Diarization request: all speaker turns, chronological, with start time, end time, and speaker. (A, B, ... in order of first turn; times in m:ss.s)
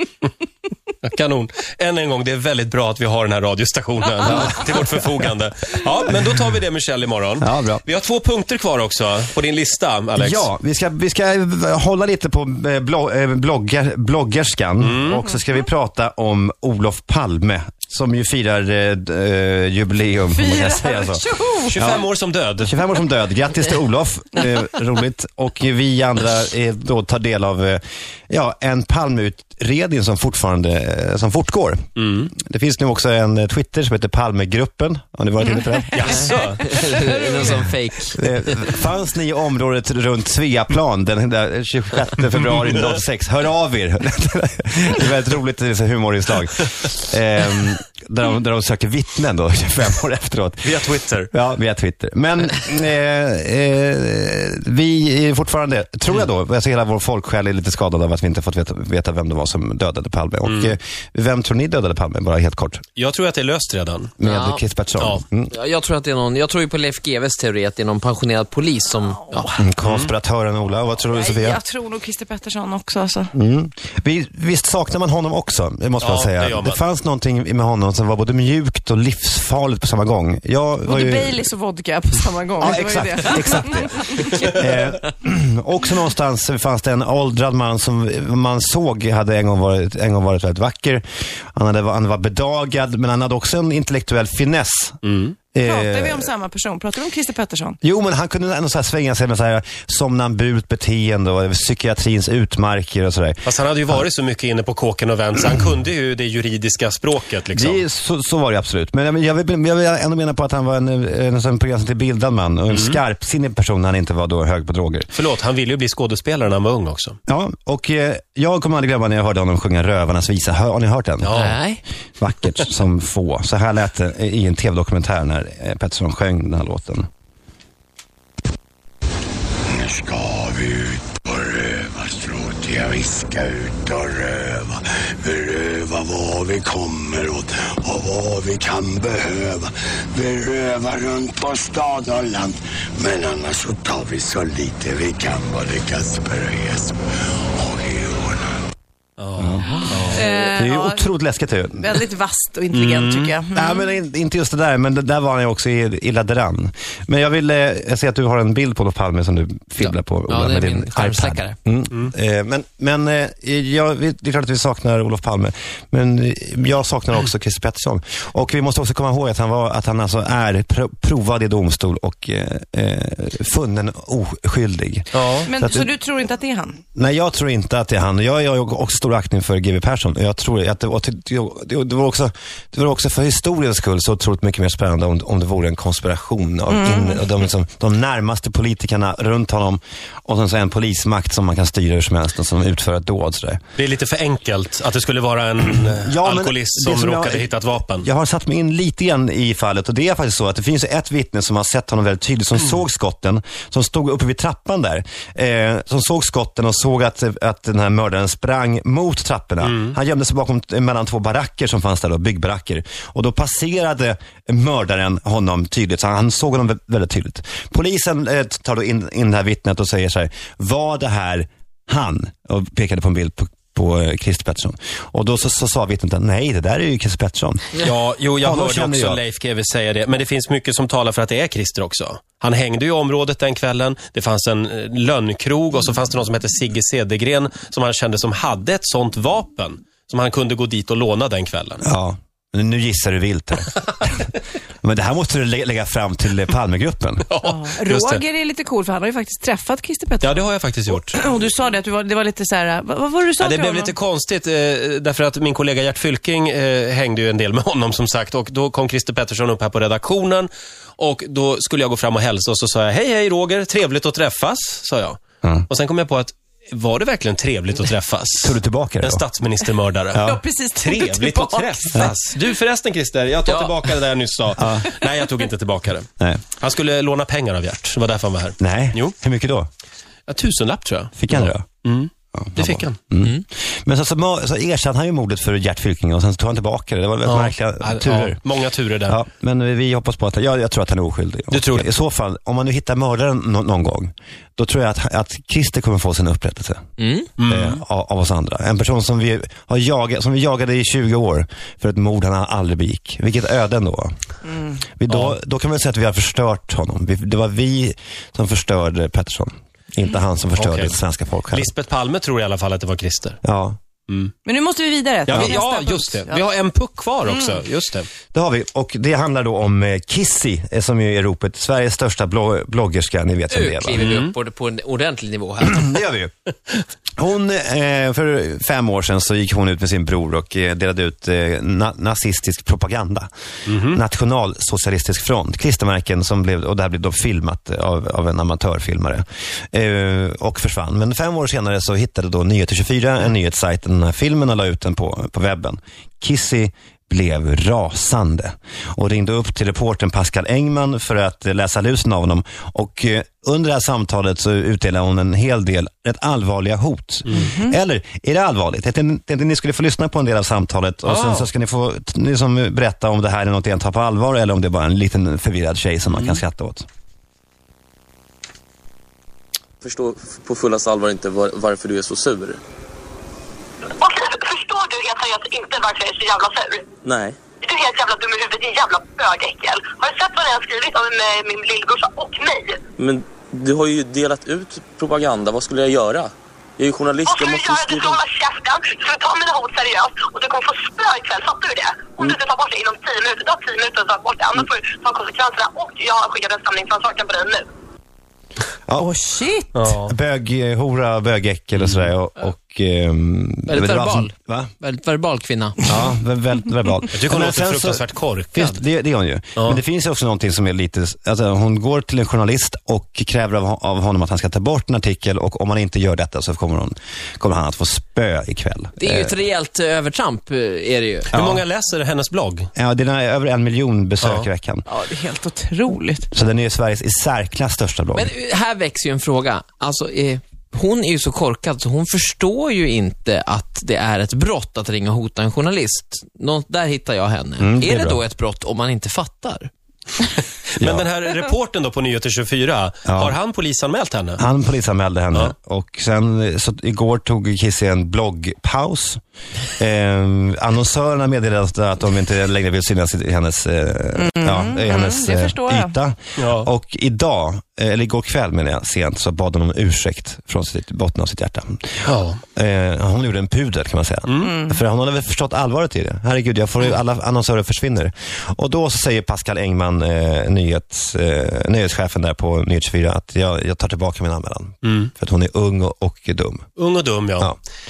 0:01.0-0:10.5 A
0:04.2-0:04.6 B
0:07.4-0:07.8 B
0:10.2-0:36.4 B
0:14.8-0:15.2 A
0:20.3-0:21.8 C
0:21.7-0:22.7 A
0:32.0-0:32.3 A
0:36.0-0:36.6 A
0:36.6-0:38.3 D
0:38.1-0:50.7 B
0:50.6-0:51.3 A
0:51.3-1:02.8 B
1:00.4-1:00.7 A
1:03.0-1:04.1 A
1:04.2-1:05.5 B
1:04.2-1:04.6 D
1:05.5-1:09.5 D
1:09.6-1:11.6 B
1:09.8-1:10.1 A
1:11.0-1:13.3 C
1:13.3-1:21.4 B
1:16.0-1:16.8 A
1:20.8-1:24.4 C
1:22.6-1:35.0 B
1:35.0-1:35.4 A
1:35.5-1:36.3 B
1:35.6-1:37.8 C
1:37.8-1:44.0 B
1:43.4-1:47.8 A
1:47.5-1:55.1 B
1:52.7-1:53.0 A
1:55.1-1:57.2 A
1:57.3-2:01.4 B
2:01.2-2:01.6 A
2:01.3-2:01.8 D
2:02.2-2:07.1 B
2:09.7-2:27.0 E
2:27.5-2:28.6 E
2:29.2-2:30.2 A
2:29.4-2:32.0 B
2:30.1-2:31.0 C
2:31.8-2:33.8 C
2:32.7-2:33.3 A
2:33.5-2:55.9 B
2:39.8-2:41.6 D
2:55.1-2:55.5 A
2:55.5-2:56.8 C
2:56.9-3:13.6 B
3:06.7-3:07.2 C
3:13.8-3:18.1 A
3:15.9-3:47.8 B
3:29.6-3:29.9 A
3:47.8-4:01.8 A
3:48.4-3:49.2 B
4:01.8-4:04.3 B
4:04.8-4:07.3 B
4:07.3-4:08.2 A
4:07.4-4:13.9 C
4:10.2-4:11.2 A
4:13.4-4:39.1 A
4:28.4-4:29.2 B
4:30.1-4:30.4 B
4:30.2-4:32.1 C
4:33.5-4:33.8 D
4:34.6-4:34.8 B
4:38.6-4:39.7 B
4:40.3-4:43.0 A
4:41.2-4:41.6 B
4:42.3-4:48.4 B
4:47.2-4:49.2 A
4:49.1-4:56.8 B
4:51.5-4:51.9 A
4:57.0-4:57.3 D
4:57.4-4:57.8 A
4:57.5-5:04.1 B
5:04.9-5:11.7 B
5:05.1-5:05.3 A
5:10.6-5:11.0 A
5:11.5-5:13.4 A
5:13.4-5:13.8 B
5:14.4-5:16.4 C
5:15.3-5:18.1 A
5:18.3-5:24.1 B
5:23.5-5:26.0 D
5:24.0-5:24.3 A
5:25.6-5:26.3 B
5:27.2-6:06.8 B
5:33.7-5:34.0 A
5:57.4-5:57.7 C
6:01.0-6:01.5 A
6:06.1-6:06.4 A
6:09.8-6:12.6 F
6:14.0-6:16.8 G
6:17.0-6:17.4 F
6:17.6-6:22.8 G
6:23.0-6:28.2 F
6:27.3-6:37.6 G
6:39.0-6:39.8 C
6:39.7-6:40.1 A
6:39.9-6:44.7 B
6:41.8-6:42.1 A
6:43.7-6:45.8 D
6:45.8-6:59.4 B
6:47.1-6:48.8 A
6:59.0-7:01.3 D
7:01.3-7:01.6 B
7:01.3-7:02.7 A
7:02.8-7:04.8 B
7:04.2-7:04.5 A
7:04.9-7:06.3 C
7:06.3-7:08.3 B
7:08.1-7:19.7 D
7:17.6-7:18.2 B
7:20.7-7:24.4 A
7:20.8-7:21.1 B
7:23.0-7:23.4 B
7:24.4-7:29.2 B
7:29.8-7:42.0 B
7:34.2-7:35.9 C
7:36.4-7:36.7 A
7:42.0-7:42.4 A
7:42.6-7:56.7 B
7:44.3-7:44.5 A
7:44.4-7:44.8 C
7:54.8-7:55.1 A
7:56.8-7:57.5 A